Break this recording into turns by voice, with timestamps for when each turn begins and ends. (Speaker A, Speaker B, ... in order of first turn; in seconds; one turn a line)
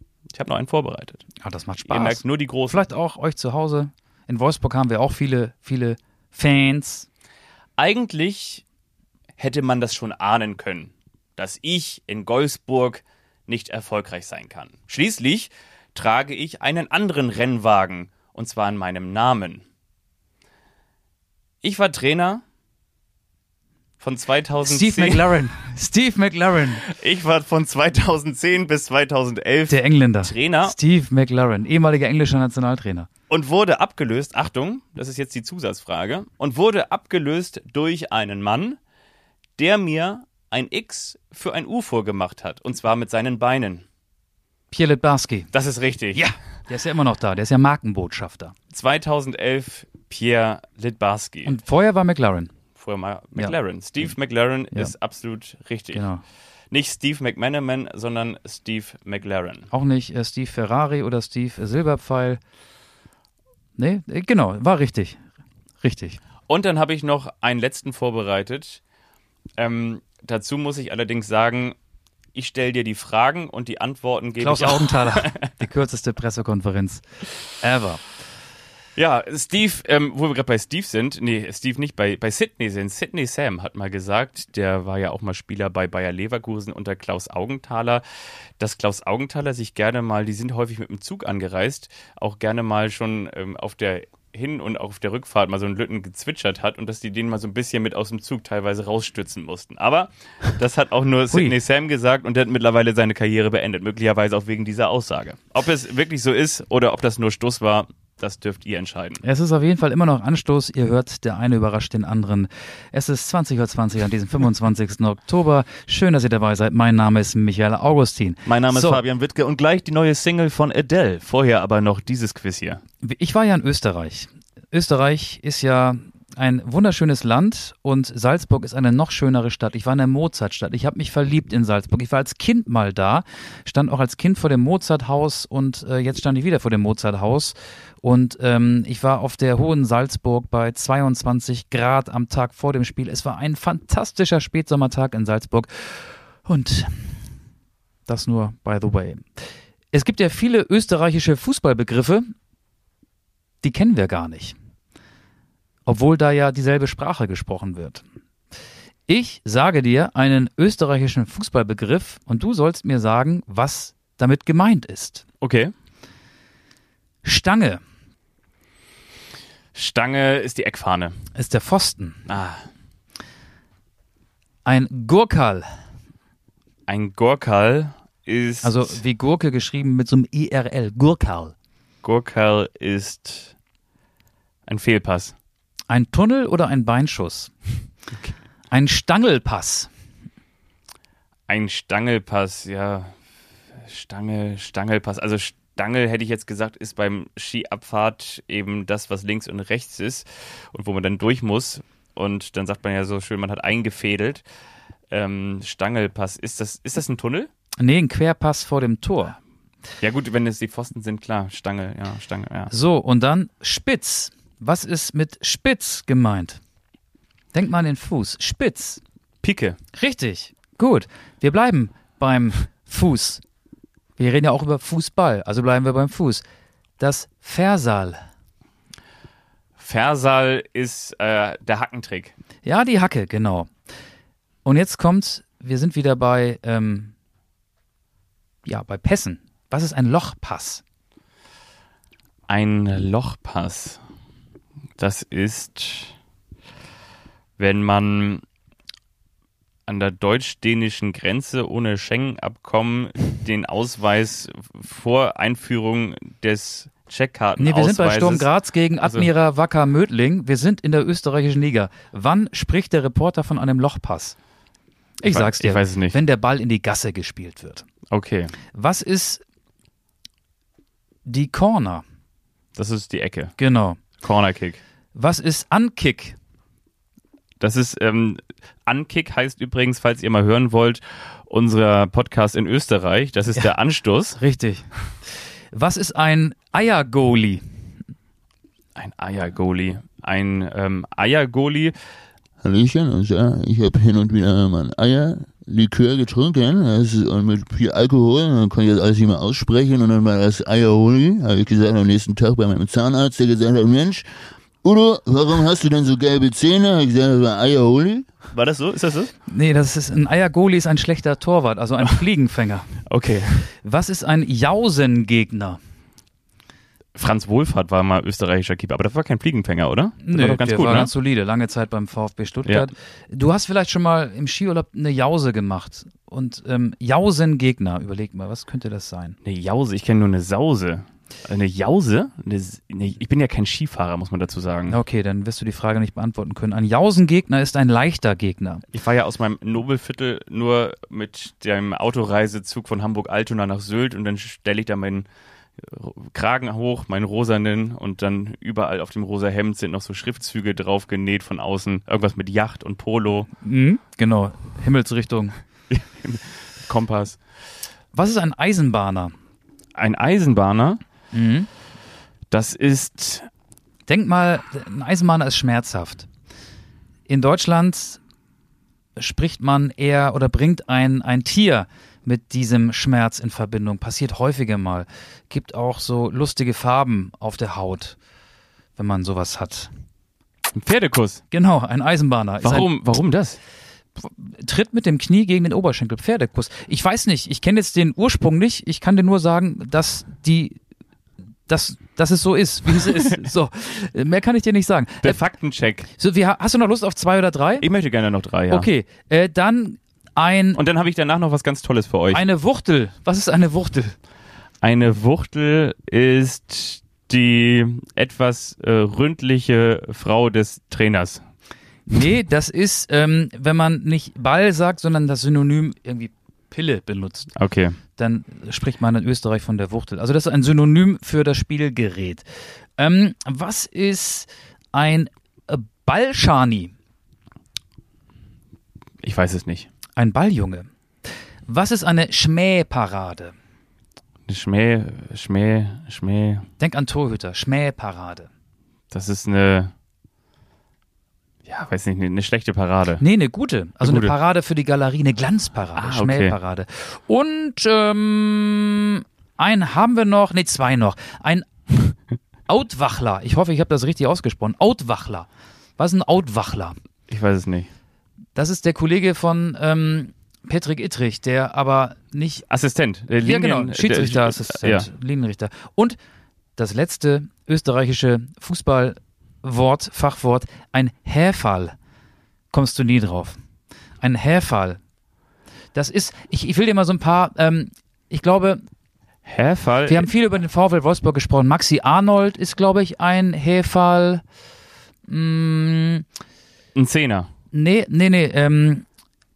Speaker A: 0.3-1.2
Speaker B: 1.4-7.1
Speaker A: 1.9-2.9
Speaker A: 7.8-8.6
Speaker A: 9.4-19.6
Speaker A: 21.6-22.4
Speaker A: 24.0-25.4
Speaker B: 24.6-26.8
Speaker A: 26.8-30.8
Speaker B: 29.7-33.1
Speaker A: 33.3-38.8
Speaker A: 39.6-43.8
Speaker B: 44.7-45.5
Speaker A: 45.5-46.2
Speaker B: 46.1-48.5
Speaker A: 48.7-51.5
Speaker B: 51.4-52.5
Speaker A: 52.8-56.0
Speaker B: 55.9-56.2
Speaker A: 56.7-59.7
Speaker B: 59.7-62.4
Speaker B: 63.8-65.2
Speaker B: 65.8-66.2
Speaker A: 66.5-68.8
Speaker A: 69.6-71.8
Speaker A: 72.3-75.4
Speaker B: 74.4-77.0
Speaker B: 77.6-78.0
Speaker A: 79.0-88.0
Speaker A: 88.6-109.2
Speaker B: 109.2-119.0
Speaker A: 118.4-122.8
Speaker B: 123.0-147.2
Speaker B: 148.1-149.2
Speaker B: 149.9-152.3
Speaker B: 153.6-154.6
Speaker B: 155.8-158.0
Speaker B: 159.1-165.2
Speaker A: 165.4-165.7
Speaker B: 167.2-167.8
Speaker A: 169.7-171.2
Speaker B: 171.3-172.2
Speaker A: 172.3-172.7
Speaker B: 174.6-175.7
Speaker A: 176.9-178.9
Speaker B: 178.6-181.5
Speaker A: 182.0-183.5
Speaker A: 184.7-185.3
Speaker B: 185.9-187.5
Speaker B: 188.7-189.9
Speaker A: 191.5-193.2
Speaker A: 193.7-204.4
Speaker A: 205.1-207.5
Speaker B: 207.8-209.4
Speaker A: 210.0-212.7
Speaker B: 212.7-216.6
Speaker B: 217.5-219.0
Speaker A: 219.4-219.8
Speaker B: 219.9-223.4
Speaker B: 224.2-226.4
Speaker B: 227.0-228.2
Speaker A: 229.8-232.3
Speaker B: 232.6-233.7
Speaker B: 234.6-237.1
Speaker B: 238.6-240.8
Speaker A: 242.5-244.0
Speaker A: 245.0-246.1
Speaker A: 247.6-248.4
Speaker A: 249.9-259.3
Speaker B: 257.6-264.4
Speaker B: 265.2-267.9
Speaker A: 265.2-266.2
Speaker A: 268.1-268.5
Speaker B: 268.7-269.4
Speaker B: 271.2-272.0
Speaker A: 272.7-273.5
Speaker B: 273.6-274.0
Speaker A: 274.2-274.8
Speaker B: 275.1-276.4
Speaker A: 277.6-284.4
Speaker B: 284.4-284.9
Speaker B: 285.7-287.6
Speaker A: 288.9-291.9
Speaker C: 292.6-304.2
Speaker C: 304.8-308.4
Speaker A: 308.5-309.3
Speaker B: 309.5-313.0
Speaker A: 313.1-313.7
Speaker B: 313.8-315.8
Speaker A: 317.1-321.1
Speaker B: 320.2-329.4
Speaker A: 329.4-334.9
Speaker B: 334.9-338.8
Speaker A: 338.9-345.3
Speaker A: 345.8-353.5
Speaker B: 353.6-355.6
Speaker A: 355.9-357.4
Speaker B: 358.1-359.3
Speaker A: 359.9-361.0
Speaker B: 361.3-361.7
Speaker A: 362.5-363.5
Speaker B: 364.1-366.3
Speaker B: 367.3-368.2
Speaker B: 369.2-378.2
Speaker B: 379.0-379.9
Speaker A: 380.7-381.4
Speaker B: 381.5-382.9
Speaker A: 382.6-383.6
Speaker B: 384.2-390.8
Speaker B: 391.7-395.4
Speaker A: 393.0-393.4
Speaker A: 395.2-396.1
Speaker B: 396.2-397.9
Speaker A: 397.8-398.9
Speaker B: 398.7-400.8
Speaker A: 400.7-402.4
Speaker B: 402.3-404.1
Speaker A: 404.8-411.4
Speaker B: 412.1-417.5
Speaker A: 417.6-418.0
Speaker B: 418.1-422.4
Speaker B: 423.0-426.9
Speaker A: 429.2-429.9
Speaker B: 430.2-430.9
Speaker B: 431.7-433.5
Speaker A: 434.5-436.7
Speaker B: 436.8-438.5
Speaker A: 439.1-439.9
Speaker A: 441.6-443.2
Speaker B: 443.2-452.1
Speaker A: 444.0-444.3
Speaker A: 445.9-446.6
Speaker B: 452.7-455.5
Speaker B: 456.0-457.0
Speaker A: 457.3-457.9
Speaker B: 458.6-462.6
Speaker A: 462.7-465.1
Speaker B: 463.4-466.2
Speaker B: 466.8-471.9
Speaker B: 472.7-473.6
Speaker B: 474.2-475.0
Speaker B: 475.9-478.8
Speaker A: 479.4-480.3
Speaker B: 480.1-484.4
Speaker B: 485.3-486.2
Speaker A: 486.9-487.5
Speaker B: 487.7-489.1